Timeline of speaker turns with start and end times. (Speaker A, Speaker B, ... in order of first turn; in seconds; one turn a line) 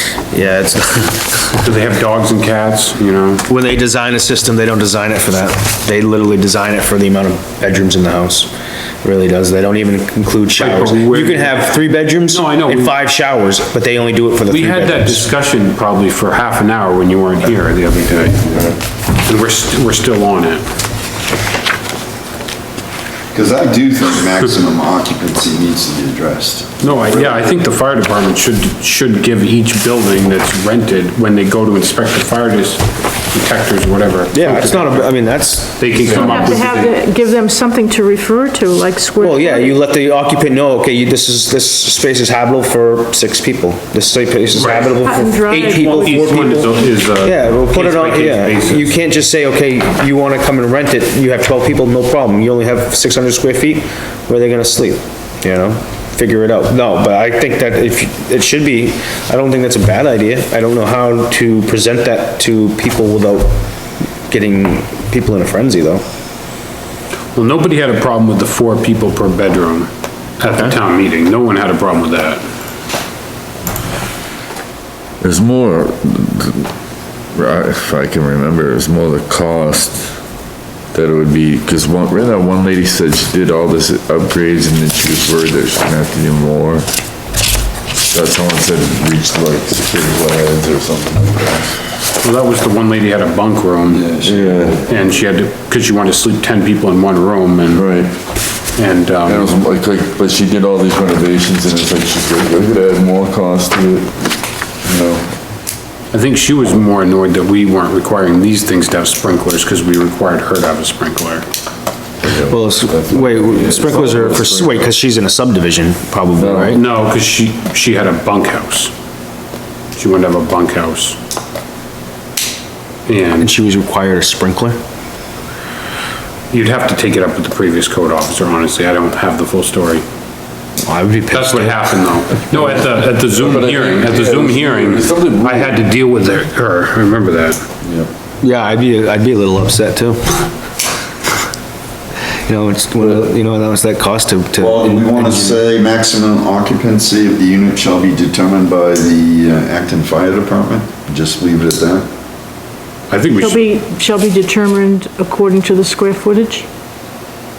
Speaker A: 0.3-1.4
Speaker B: 1.6-3.5
Speaker A: 3.5-8.5
Speaker A: 9.0-15.3
Speaker B: 10.6-11.7
Speaker B: 12.3-12.9
Speaker B: 14.5-18.6
Speaker B: 19.2-20.6
Speaker C: 23.3-27.6
Speaker B: 26.8-35.1
Speaker A: 34.3-36.5
Speaker B: 35.8-37.0
Speaker D: 36.1-39.8
Speaker A: 39.2-63.6
Speaker B: 44.5-48.9
Speaker D: 45.0-46.7
Speaker A: 64.3-66.0
Speaker B: 67.3-72.4
Speaker A: 70.5-70.8
Speaker E: 75.2-76.7
Speaker E: 77.3-80.2
Speaker E: 80.9-86.9
Speaker E: 88.0-91.8
Speaker B: 92.2-94.1
Speaker C: 93.9-94.8
Speaker E: 94.2-94.9
Speaker B: 94.8-97.9
Speaker E: 97.7-98.1
Speaker B: 98.8-99.5
Speaker E: 99.2-105.3
Speaker B: 106.1-111.5
Speaker E: 112.2-114.9
Speaker A: 112.5-116.8
Speaker E: 116.4-116.8
Speaker B: 116.7-118.9
Speaker B: 120.0-121.2
Speaker B: 123.1-123.5
Speaker A: 123.4-124.8
Speaker B: 126.5-130.1
Speaker A: 130.8-132.1
Speaker B: 131.3-137.6
Speaker E: 132.5-135.9
Speaker E: 137.8-138.1
Speaker A: 138.4-140.4
Speaker A: 142.4-145.6
Speaker C: 144.6-152.1
Speaker B: 153.1-153.6
Speaker D: 153.4-156.7